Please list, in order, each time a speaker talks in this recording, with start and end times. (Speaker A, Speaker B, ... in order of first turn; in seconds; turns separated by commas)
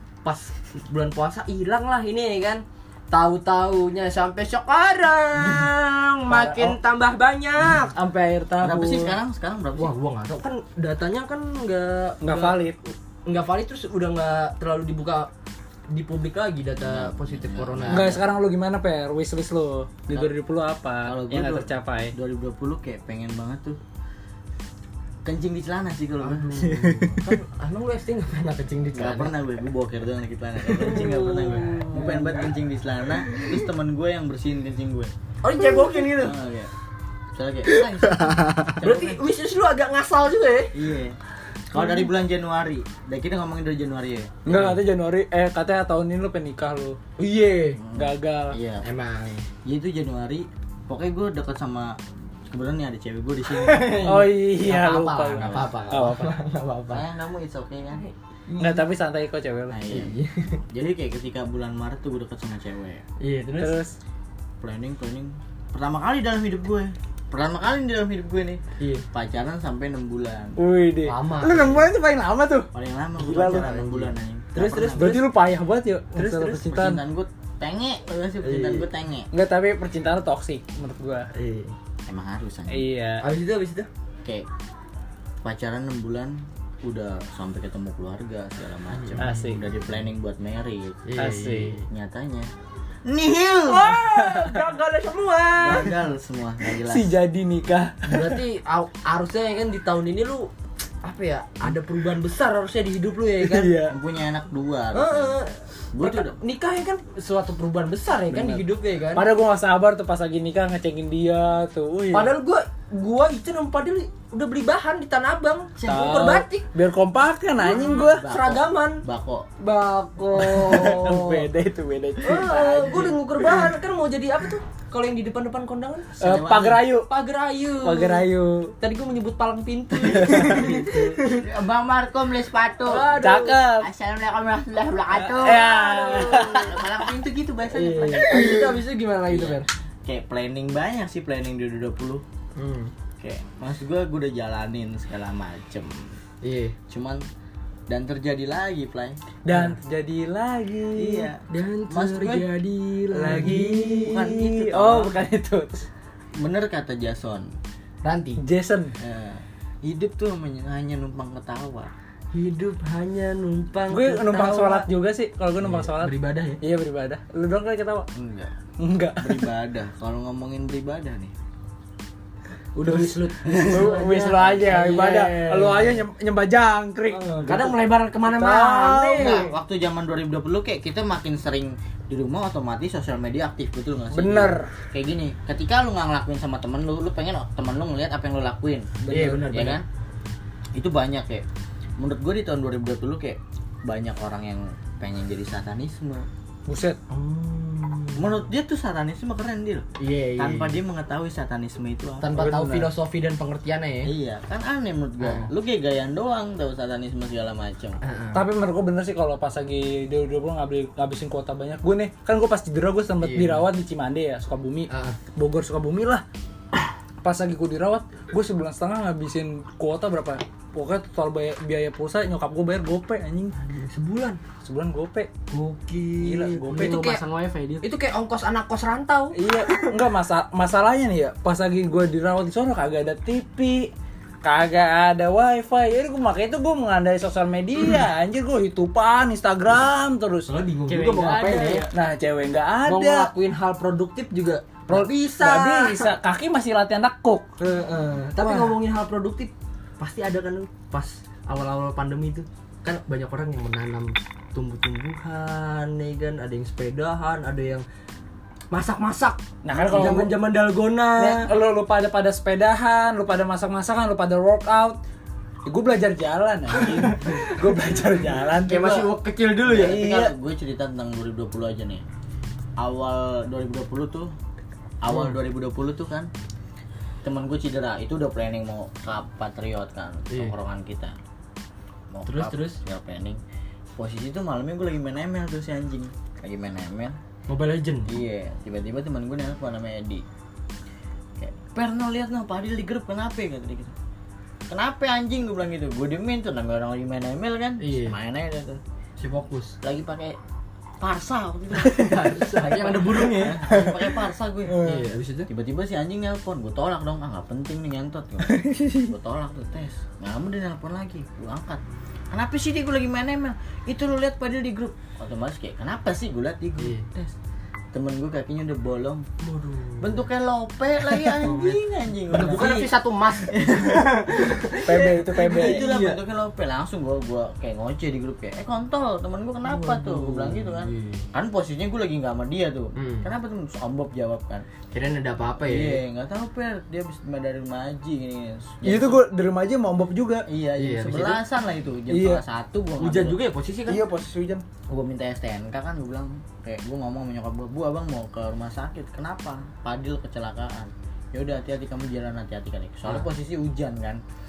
Speaker A: 0.2-8.0, Speaker B: 6.3-6.8, Speaker B: 7.9-9.2, Speaker C: 8.6-9.9, Speaker A: 9.8-12.6, Speaker B: 12.2-12.8, Speaker A: 13.2-15.3, Speaker A: 15.9-18.2, Speaker C: 16.8-18.1, Speaker B: 17.9-22.1, Speaker C: 21.1-23.8, Speaker C: 25.2-26.6, Speaker A: 26.2-29.3, Speaker B: 26.6-27.4, Speaker C: 28.9-35.1, Speaker A: 30.7-32.5, Speaker A: 33.3-33.6, Speaker A: 35.4-36.4, Speaker C: 36.2-36.7, Speaker C: 37.3-39.2, Speaker A: 37.7-40.7, Speaker C: 40.7-41.2, Speaker C: 41.7-44.8, Speaker A: 41.7-42.1, Speaker B: 44.5-47.0, Speaker A: 47.2-47.8, Speaker C: 47.8-48.8, Speaker B: 47.9-48.5, Speaker A: 48.8-49.5, Speaker C: 49.6-54.1, Speaker A: 53.5-57.0, Speaker B: 54.0-56.3, Speaker C: 55.4-56.0, Speaker C: 56.9-58.1, Speaker A: 58.5-58.8, Speaker B: 58.6-59.8, Speaker C: 59.7-60.1, Speaker A: 59.9-60.6, Speaker C: 60.7-63.0, Speaker A: 63.2-63.8, Speaker B: 63.6-64.0, Speaker C: 64.6-70.6, Speaker A: 68.8-69.0, Speaker B: 70.6-72.7, Speaker A: 71.1-71.9, Speaker C: 72.7-75.2, Speaker A: 73.2-75.3, Speaker B: 73.2-73.7, Speaker B: 74.9-77.0, Speaker A: 76.1-76.6, Speaker C: 76.6-79.3, Speaker A: 78.4-78.9, Speaker B: 79.3-81.3, Speaker A: 81.3-81.7, Speaker C: 82.1-82.8, Speaker B: 82.7-83.2, Speaker A: 83.2-83.9, Speaker C: 85.4-91.0, Speaker A: 88.9-89.3, Speaker B: 89.2-89.6, Speaker A: 91.0-91.8, Speaker B: 91.2-91.7, Speaker C: 91.9-92.5, Speaker C: 93.0-94.0, Speaker A: 93.7-95.9, Speaker B: 94.1-94.6, Speaker C: 95.6-97.1, Speaker B: 96.8-98.4, Speaker A: 98.0-100.5, Speaker A: 101.0-103.8, Speaker B: 103.4-104.0, Speaker C: 103.9-105.4, Speaker A: 104.9-109.2, Speaker C: 105.9-106.4, Speaker B: 108.3-108.6, Speaker B: 109.1-112.3, Speaker A: 112.1-116.7, Speaker C: 115.8-116.3, Speaker B: 115.9-118.2, Speaker A: 117.6-119.0, Speaker C: 117.8-119.5, Speaker A: 119.6-121.5, Speaker B: 120.3-123.6, Speaker A: 122.2-126.1, Speaker C: 122.8-123.1, Speaker C: 126.2-126.8, Speaker B: 126.2-127.1, Speaker A: 127.1-128.3, Speaker B: 127.8-128.7, Speaker A: 128.8-131.4, Speaker B: 130.0-130.8, Speaker C: 130.3-133.2, Speaker A: 132.8-133.6, Speaker B: 133.1-133.9, Speaker C: 133.8-138.7, Speaker B: 135.1-136.8, Speaker A: 135.5-136.7, Speaker A: 137.7-139.7, Speaker C: 139.3-142.2, Speaker A: 142.6-142.9, Speaker C: 143.2-146.2, Speaker A: 146.4-146.8, Speaker C: 146.9-147.2, Speaker C: 147.9-149.2, Speaker B: 149.4-151.3, Speaker A: 149.5-149.8, Speaker C: 150.9-152.5, Speaker A: 151.5-154.2, Speaker B: 153.1-155.9, Speaker C: 153.4-155.1, Speaker C: 156.3-157.5, Speaker A: 158.0-158.4, Speaker B: 158.4-158.9, Speaker C: 159.0-161.9, Speaker A: 162.3-164.8, Speaker B: 163.9-168.1, Speaker A: 165.6-166.6, Speaker C: 168.1-168.5, Speaker B: 168.8-169.5, Speaker C: 169.2-171.3, Speaker A: 172.8-176.0, Speaker B: 172.8-179.4, Speaker D: 172.9-174.4, Speaker A: 177.1-179.5, Speaker C: 179.2-188.9, Speaker B: 184.1-184.7, Speaker B: 189.0-189.6, Speaker A: 189.1-189.8, Speaker C: 189.5-189.8, Speaker C: 190.7-191.4, Speaker C: 192.0-196.3, Speaker B: 196.7-197.0, Speaker A: 197.1-198.4, Speaker C: 198.2-199.8, Speaker A: 200.0-200.8, Speaker C: 200.4-202.3, Speaker A: 202.2-204.1, Speaker B: 202.3-202.9, Speaker C: 204.1-208.0, Speaker A: 205.2-205.5, Speaker A: 208.0-208.4, Speaker B: 208.3-216.2, Speaker A: 213.2-213.6, Speaker A: 214.9-215.2, Speaker B: 217.2-223.5, Speaker A: 223.6-224.4, Speaker B: 224.6-225.3, Speaker A: 225.5-227.2, Speaker B: 226.2-227.0, Speaker D: 226.7-227.8, Speaker A: 227.8-230.0, Speaker B: 229.3-233.9, Speaker B: 234.4-240.5, Speaker A: 240.5-241.9, Speaker D: 240.9-241.9, Speaker B: 241.9-243.3, Speaker A: 242.8-246.1, Speaker B: 244.9-247.4, Speaker A: 247.6-257.8, Speaker B: 248.4-248.8, Speaker A: 258.7-261.5, Speaker B: 259.6-260.3, Speaker B: 261.2-265.0, Speaker B: 265.6-269.1, Speaker A: 266.7-267.6, Speaker A: 268.6-270.0, Speaker C: 269.6-272.0, Speaker B: 269.7-270.3, Speaker C: 272.8-274.3, Speaker C: 275.0-276.3, Speaker A: 275.1-275.3, Speaker C: 277.2-281.1, Speaker A: 280.3-280.6, Speaker C: 282.1-283.4, Speaker A: 282.2-282.8, Speaker C: 284.0-287.2, Speaker A: 287.5-288.1, Speaker C: 288.1-290.2, Speaker C: 291.4-293.9, Speaker C: 294.7-298.8, Speaker A: 297.8-298.2, Speaker A: 299.2-299.8, Speaker C: 299.8-300.4, Speaker C: 301.0-304.9, Speaker A: 301.8-303.8, Speaker B: 303.7-303.9, Speaker B: 304.7-305.0, Speaker A: 304.8-305.5, Speaker C: 305.5-317.3, Speaker B: 308.4-309.1, Speaker A: 316.8-317.1, Speaker C: 317.9-319.2, Speaker A: 319.4-320.2, Speaker C: 320.0-322.9, Speaker A: 321.1-321.8, Speaker A: 322.3-326.2, Speaker C: 323.5-334.6, Speaker B: 324.8-325.9, Speaker A: 329.6-331.2, Speaker A: 332.9-333.3, Speaker A: 334.9-336.0, Speaker C: 335.6-339.2, Speaker B: 338.8-340.4, Speaker C: 340.5-343.4, Speaker A: 340.8-341.4, Speaker B: 342.1-342.4, Speaker A: 343.0-344.0, Speaker B: 343.9-344.6, Speaker C: 344.9-354.2